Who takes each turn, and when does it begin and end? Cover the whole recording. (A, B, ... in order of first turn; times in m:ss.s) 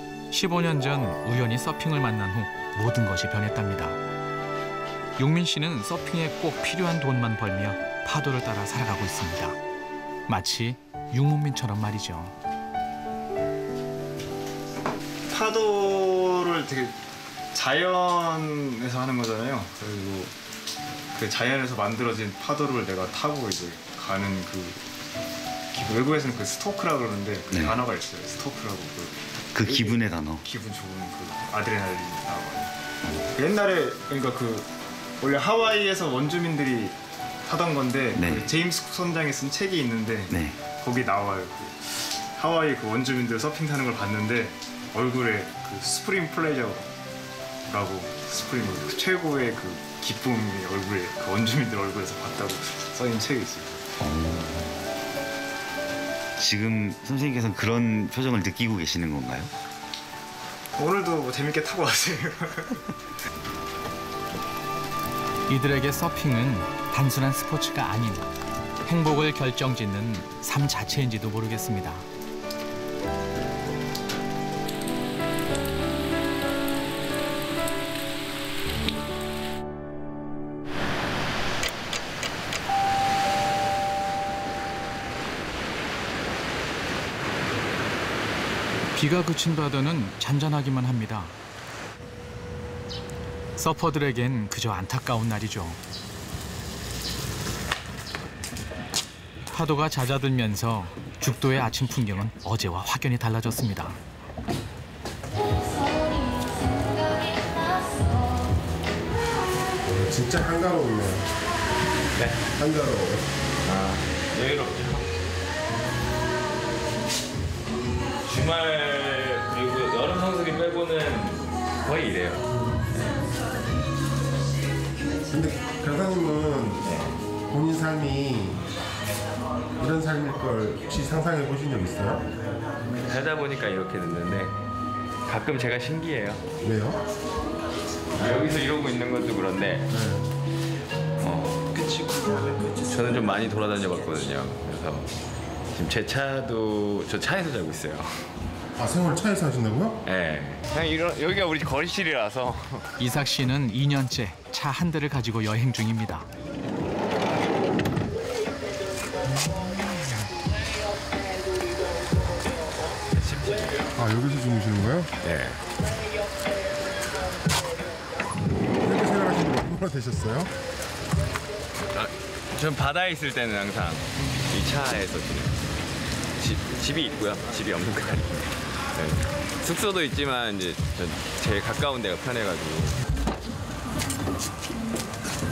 0:00.3-0:04.0 A
0:05.2-0:09.6 A
0:10.3-0:12.4 A
0:15.3-0:17.0 B
0:17.5-0:20.4 B
0:21.1-0:24.8 B
0:25.7-0:32.7 B
0:29.6-0:30.4 C
0:33.3-0:46.9 B
0:47.7-0:53.9 B
0:54.0-0:54.8 C
0:56.4-0:59.5 C
1:00.8-1:02.8 B
1:05.5-1:08.2 A
1:08.8-1:12.0 A
1:28.9-1:31.3 A
1:33.6-1:35.8 A
1:39.5-1:44.0 A
1:49.8-1:51.3 D
1:52.6-1:53.3 D
1:53.6-1:55.0 E
1:58.2-2:03.1 E
2:05.3-2:06.8 D
2:06.8-2:07.1 E
2:07.5-2:08.6 D
2:09.8-2:12.2 D
2:13.0-2:14.5 E
2:15.3-2:16.4 E
2:16.6-2:17.0 D
2:18.1-2:19.9 E
2:19.9-2:20.3 D
2:21.2-2:21.6 E
2:22.8-2:25.1 E
2:25.7-2:28.2 E
2:28.8-2:30.0 D
2:30.0-2:32.9 E
2:33.0-2:36.3 A
2:43.1-2:43.9 E
2:44.0-2:45.1 D
2:45.2-2:45.6 E
2:48.8-2:50.5 D
2:51.9-2:55.6 E
2:56.4-3:03.0 E